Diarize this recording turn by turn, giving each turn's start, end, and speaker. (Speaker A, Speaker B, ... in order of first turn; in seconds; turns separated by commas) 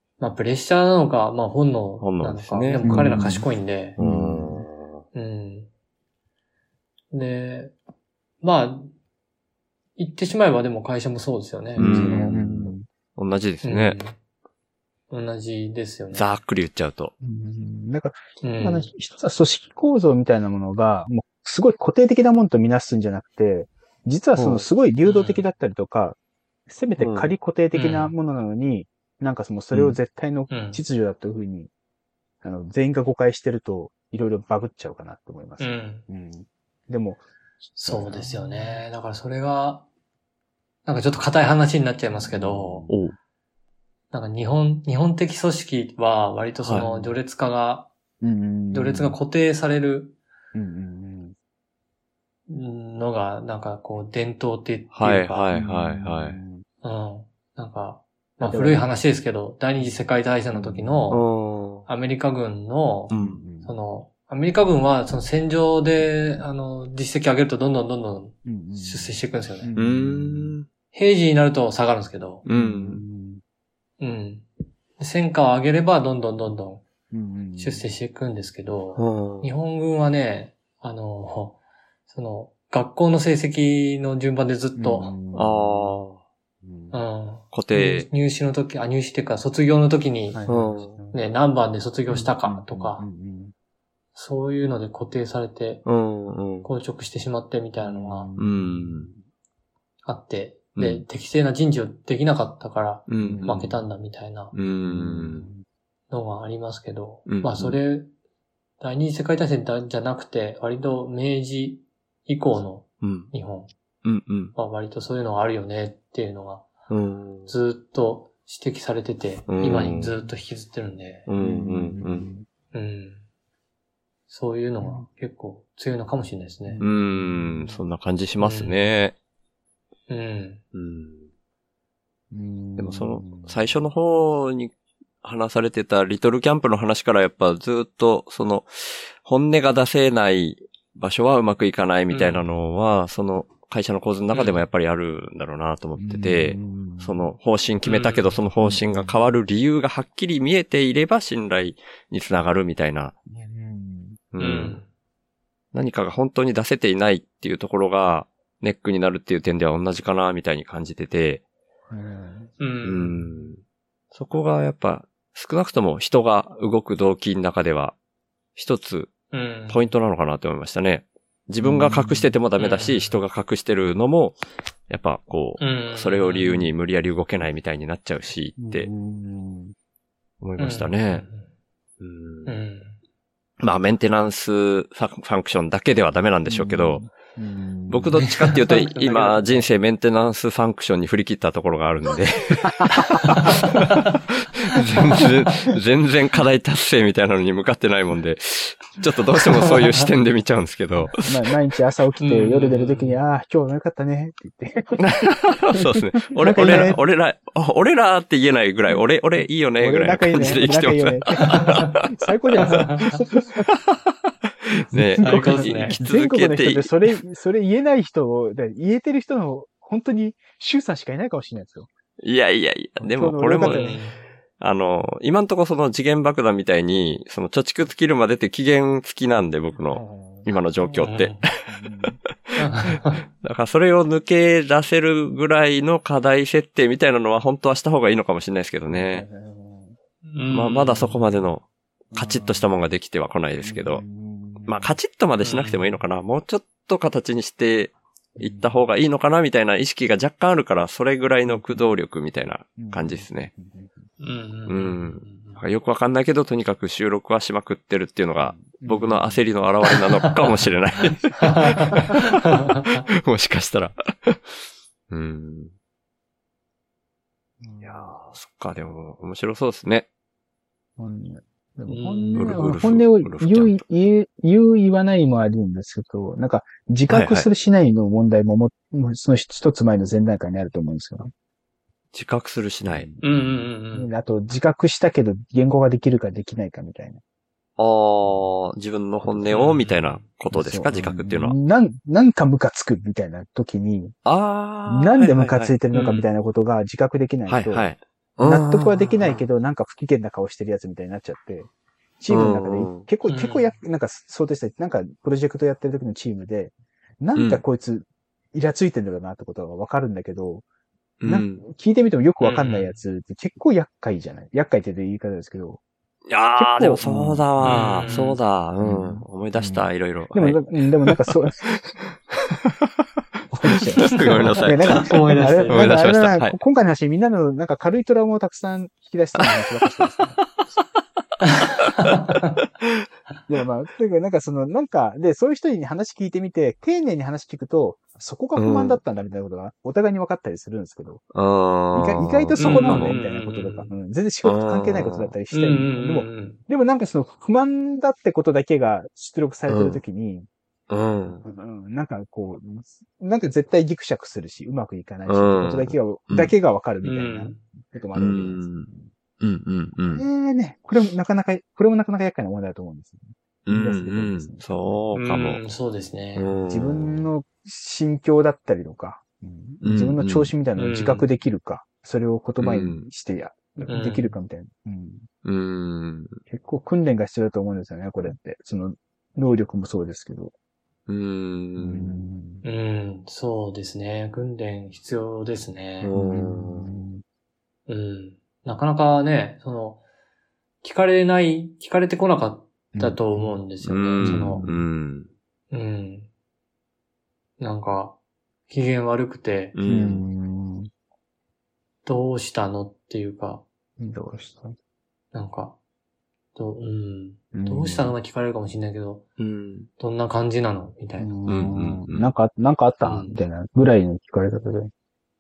Speaker A: 0.2-4.0, Speaker B: 2.0-3.2, Speaker C: 2.8-3.5, Speaker B: 4.0-5.0, Speaker C: 4.0-4.7, Speaker A: 5.2-5.7, Speaker A: 7.1-7.7, Speaker A: 8.4-8.9, Speaker A: 10.0-12.3, Speaker C: 11.8-12.8, Speaker B: 11.8-14.0, Speaker A: 13.6-14.2, Speaker A: 15.1-16.3, Speaker B: 16.1-17.1, Speaker C: 17.2-31.7, Speaker A: 18.4-18.9, Speaker B: 24.4-24.7, Speaker A: 25.0-25.4, Speaker B: 27.0-27.3, Speaker A: 27.7-28.1, Speaker B: 29.7-30.0, Speaker A: 30.5-30.8, Speaker C: 32.4-37.2, Speaker A: 35.6-36.0, Speaker C: 37.8-38.9, Speaker A: 37.8-39.9, Speaker A: 40.9-42.9, Speaker C: 42.1-42.9, Speaker B: 42.9-43.1, Speaker A: 44.1-47.9, Speaker C: 46.7-47.2, Speaker C: 48.2-49.2, Speaker A: 48.7-50.1, Speaker C: 50.5-51.4, Speaker A: 52.5-55.5, Speaker B: 54.9-56.4, Speaker C: 55.5-56.6, Speaker A: 56.8-61.3, Speaker C: 58.4-59.0, Speaker C: 59.8-61.1, Speaker B: 61.1-61.9, Speaker A: 61.9-69.7, Speaker B: 63.1-63.4, Speaker C: 63.1-63.7, Speaker C: 68.5-70.5, Speaker B: 69.8-70.7, Speaker A: 70.9-72.4, Speaker B: 72.5-73.0, Speaker C: 72.5-73.4, Speaker A: 74.0-74.5, Speaker A: 75.0-76.8, Speaker C: 77.1-77.9, Speaker A: 77.6-81.6, Speaker B: 79.0-79.5, Speaker A: 82.1-85.2, Speaker C: 84.8-86.0, Speaker B: 85.3-86.2, Speaker C: 86.6-87.0, Speaker A: 86.9-90.4, Speaker B: 87.5-88.1, Speaker C: 90.3-91.3, Speaker B: 90.5-90.9, Speaker A: 91.1-93.1, Speaker C: 92.1-93.5, Speaker A: 94.2-95.8, Speaker B: 95.8-96.7, Speaker A: 96.6-98.3, Speaker C: 97.8-99.2, Speaker B: 98.4-99.1, Speaker A: 100.1-104.5, Speaker B: 100.8-101.0, Speaker B: 103.1-103.5, Speaker C: 103.2-103.8, Speaker B: 104.5-105.5, Speaker C: 104.8-105.6, Speaker A: 106.1-108.1, Speaker B: 107.3-107.8, Speaker A: 108.8-113.7, Speaker B: 113.0-113.3, Speaker B: 114.0-114.5, Speaker A: 114.6-116.7, Speaker B: 116.9-117.5, Speaker A: 117.5-121.3, Speaker B: 119.5-120.1, Speaker B: 121.3-122.3, Speaker C: 121.4-122.5, Speaker A: 122.7-123.2, Speaker A: 124.3-126.8, Speaker C: 124.8-125.1, Speaker C: 126.7-127.8, Speaker B: 126.8-129.2, Speaker A: 128.4-128.8, Speaker A: 130.1-130.6, Speaker B: 130.7-131.3, Speaker C: 132.3-133.8, Speaker B: 132.8-153.2, Speaker A: 142.1-142.5, Speaker A: 144.3-144.6, Speaker C: 146.0-147.3, Speaker A: 147.8-148.4, Speaker C: 148.6-149.2, Speaker C: 153.3-154.2, Speaker B: 154.3-154.8, Speaker A: 154.4-154.9, Speaker B: 155.7-161.4, Speaker C: 161.9-162.5, Speaker A: 162.6-163.3, Speaker B: 162.8-163.6, Speaker B: 164.1-168.0, Speaker B: 168.6-169.2, Speaker A: 169.3-169.9, Speaker B: 169.7-174.4, Speaker C: 171.6-172.3, Speaker A: 172.6-173.2, Speaker B: 174.9-178.9, Speaker A: 175.6-176.5, Speaker C: 178.6-179.7, Speaker B: 180.4-181.2, Speaker A: 180.6-181.5, Speaker B: 182.0-182.5, Speaker A: 182.5-183.0, Speaker B: 183.6-187.0, Speaker C: 186.5-188.2, Speaker B: 187.9-201.4, Speaker A: 188.2-189.7, Speaker C: 192.8-193.4, Speaker A: 193.2-194.1, Speaker A: 195.0-195.5, Speaker A: 199.7-200.0, Speaker C: 201.1-207.0, Speaker A: 202.2-203.2, Speaker B: 205.0-212.1, Speaker C: 209.8-213.7, Speaker A: 211.4-212.0, Speaker A: 212.6-213.2, Speaker B: 213.6-214.0, Speaker B: 214.6-217.1, Speaker C: 214.9-221.9, Speaker A: 215.2-216.0, Speaker B: 222.2-224.0, Speaker C: 223.0-224.0, Speaker A: 223.6-224.2, Speaker B: 224.6-232.1, Speaker C: 229.9-232.2, Speaker A: 231.0-231.5, Speaker A: 232.6-233.2, Speaker B: 232.9-239.2, Speaker C: 238.9-240.0, Speaker A: 240.2-241.2, Speaker B: 240.5-244.0, Speaker C: 242.1-242.7, Speaker C: 243.6-245.0, Speaker B: 244.7-253.5, Speaker A: 245.4-245.9, Speaker C: 248.4-248.8, Speaker C: 251.5-251.8, Speaker C: 252.8-254.0, Speaker A: 254.2-255.6, Speaker B: 254.7-262.4, Speaker C: 258.5-259.4, Speaker A: 261.4-263.1, Speaker B: 263.2-264.5, Speaker B: 265.1-265.7, Speaker C: 267.6-268.1, Speaker B: 267.8-270.1, Speaker C: 271.0-281.3, Speaker A: 271.9-272.6, Speaker B: 272.4-273.7, Speaker B: 277.1-277.5, Speaker B: 282.1-283.1, Speaker C: 282.9-287.2, Speaker A: 283.2-284.1, Speaker B: 287.8-291.6, Speaker C: 289.2-289.7, Speaker A: 289.5-290.2, Speaker C: 290.5-294.2, Speaker B: 294.2-296.3, Speaker C: 294.9-297.9, Speaker B: 297.5-299.0, Speaker C: 298.4-310.6, Speaker A: 299.0-299.5, Speaker B: 302.3-303.1, Speaker A: 303.3-303.8, Speaker B: 307.4-307.6, Speaker B: 311.2-311.6, Speaker C: 311.3-315.8, Speaker A: 312.4-313.0, Speaker B: 316.3-325.1, Speaker C: 316.6-318.3, Speaker A: 317.7-318.4, Speaker C: 318.8-321.7, Speaker C: 323.5-330.4, Speaker A: 324.0-325.9, Speaker B: 325.7-326.6, Speaker A: 331.4-332.6, Speaker C: 333.5-341.2, Speaker B: 338.6-339.0, Speaker B: 341.3-343.2, Speaker C: 341.9-350.5, Speaker A: 342.6-343.9, Speaker B: 344.4-345.3, Speaker A: 345.5-346.6, Speaker B: 349.7-350.0, Speaker B: 350.9-351.4, Speaker C: 351.4-359.1, Speaker B: 355.3-356.5, Speaker A: 357.0-357.6, Speaker B: 358.1-360.2, Speaker C: 360.1-365.0, Speaker B: 363.7-365.6, Speaker A: 365.1-366.6, Speaker B: 366.4-367.2, Speaker C: 366.7-375.3, Speaker B: 369.8-370.5, Speaker A: 370.8-371.3, Speaker B: 372.6-373.0, Speaker A: 373.9-374.4, Speaker B: 375.4-376.4, Speaker C: 376.5-380.5, Speaker B: 381.1-382.2, Speaker C: 381.8-382.6, Speaker A: 382.6-386.1, Speaker B: 386.0-386.9, Speaker C: 386.1-387.2, Speaker A: 387.9-390.0, Speaker A: 390.8-394.6, Speaker C: 392.9-393.6, Speaker B: 393.8-395.3, Speaker C: 394.2-394.8, Speaker A: 395.7-396.3, Speaker A: 397.6-398.2, Speaker A: 398.7-399.8, Speaker B: 399.7-400.2, Speaker C: 399.9-400.9, Speaker A: 402.1-403.6, Speaker C: 404.0-404.8, Speaker A: 405.3-405.8, Speaker A: 406.6-409.2, Speaker C: 407.5-408.1, Speaker B: 409.4-409.9, Speaker A: 410.0-411.7, Speaker C: 411.2-414.9, Speaker B: 411.5-412.3, Speaker A: 413.1-413.4